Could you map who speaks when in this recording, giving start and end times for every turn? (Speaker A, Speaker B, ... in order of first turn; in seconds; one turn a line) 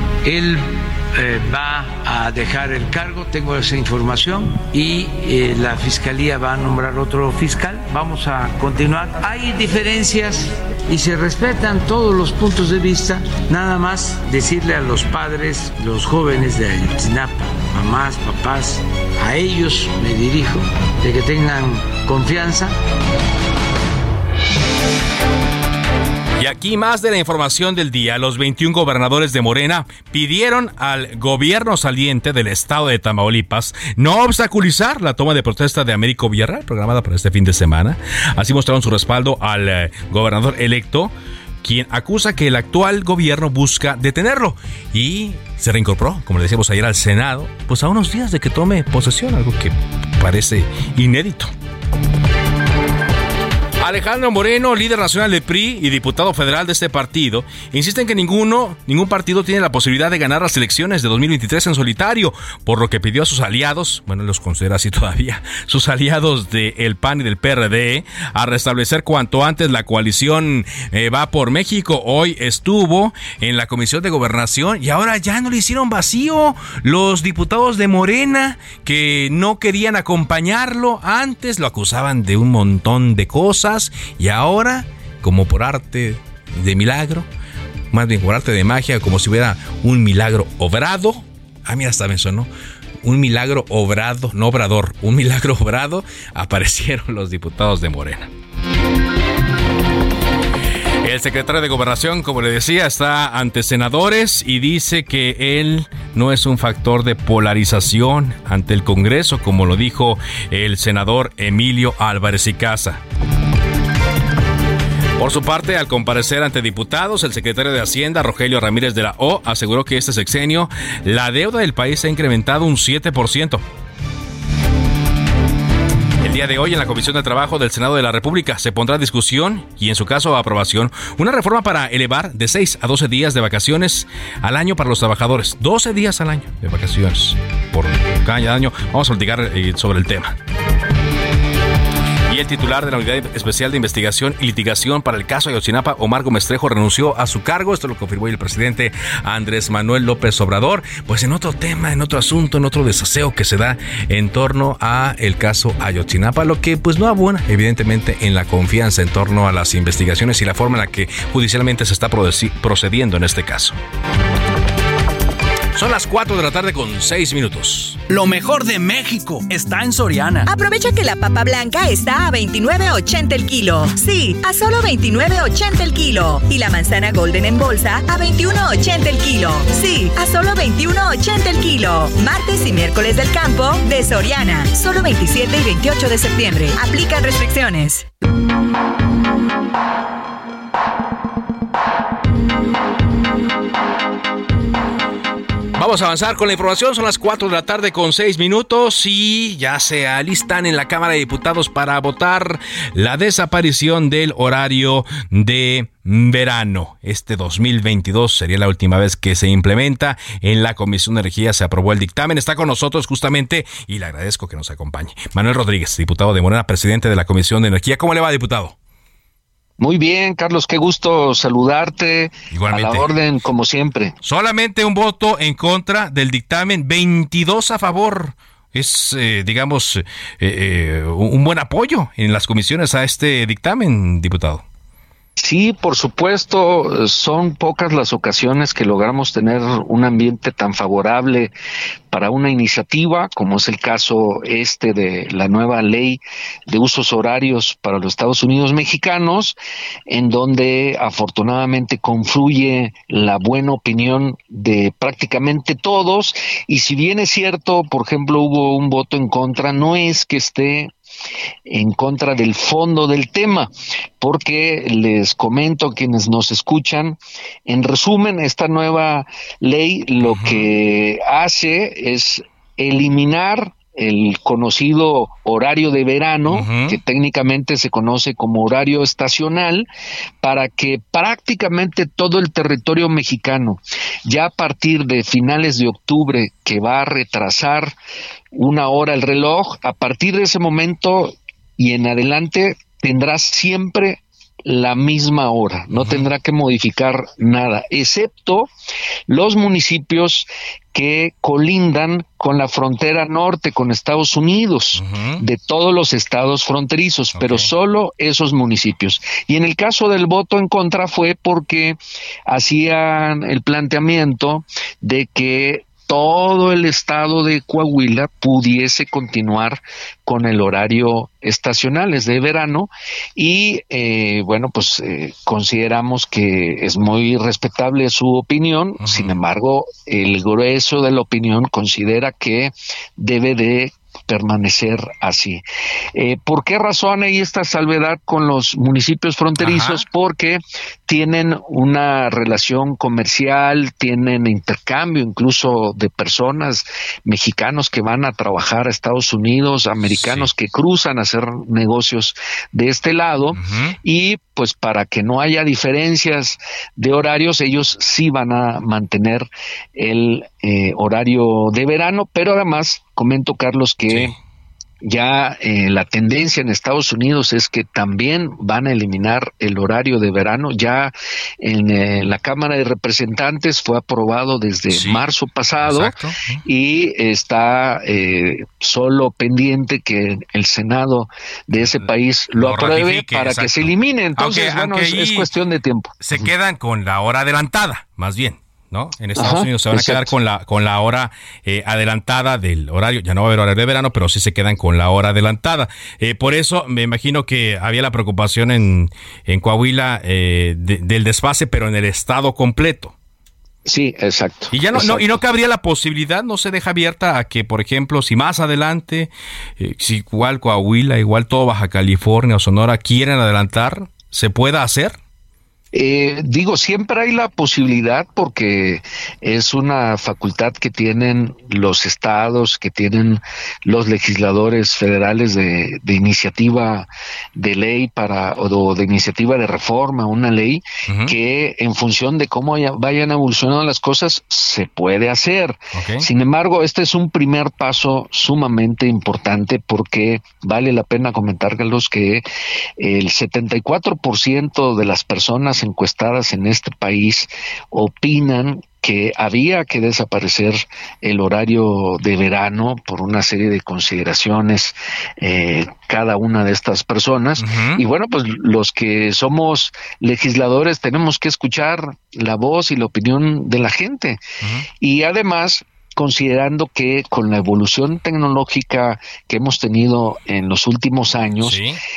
Speaker A: 0.2-22.8
Speaker B: 26.4-51.5
Speaker B: 53.8-87.3
Speaker B: 87.9-92.5
Speaker B: 93.0-98.3
Speaker B: 101.0-113.0
Speaker B: 115.2-123.6
Speaker B: 126.2-140.4
Speaker B: 142.3-163.8
Speaker B: 165.8-168.0
Speaker C: 168.1-170.5
Speaker D: 170.5-188.1
Speaker B: 195.8-218.8
Speaker E: 219.8-224.1
Speaker B: 222.5-223.1
Speaker B: 224.2-234.6
Speaker E: 235.4-241.5
Speaker E: 242.1-249.6
Speaker E: 250.1-260.9
Speaker E: 261.7-279.9
Speaker B: 270.2-270.7
Speaker B: 276.5-277.0
Speaker E: 280.4-287.9
Speaker E: 288.5-298.7
Speaker B: 295.9-296.3
Speaker E: 299.3-335.6
Speaker B: 304.9-305.4
Speaker B: 307.3-307.7
Speaker B: 329.0-329.4
Speaker E: 336.1-364.4
Speaker B: 339.6-340.1
Speaker B: 350.1-350.5
Speaker B: 353.6-354.0
Speaker B: 364.1-364.4
Speaker E: 365.0-386.5
Speaker B: 374.9-375.2
Speaker B: 375.8-376.6
Speaker B: 382.6-385.5
Speaker B: 386.2-403.1
Speaker E: 389.4-390.3
Speaker E: 403.9-405.4
Speaker B: 404.7-415.2
Speaker E: 415.9-442.4
Speaker B: 431.1-431.3
Speaker B: 435.9-436.3
Speaker E: 443.0-464.4
Speaker B: 457.6-458.0
Speaker B: 464.6-464.9
Speaker E: 465.0-471.8
Speaker B: 471.6-472.0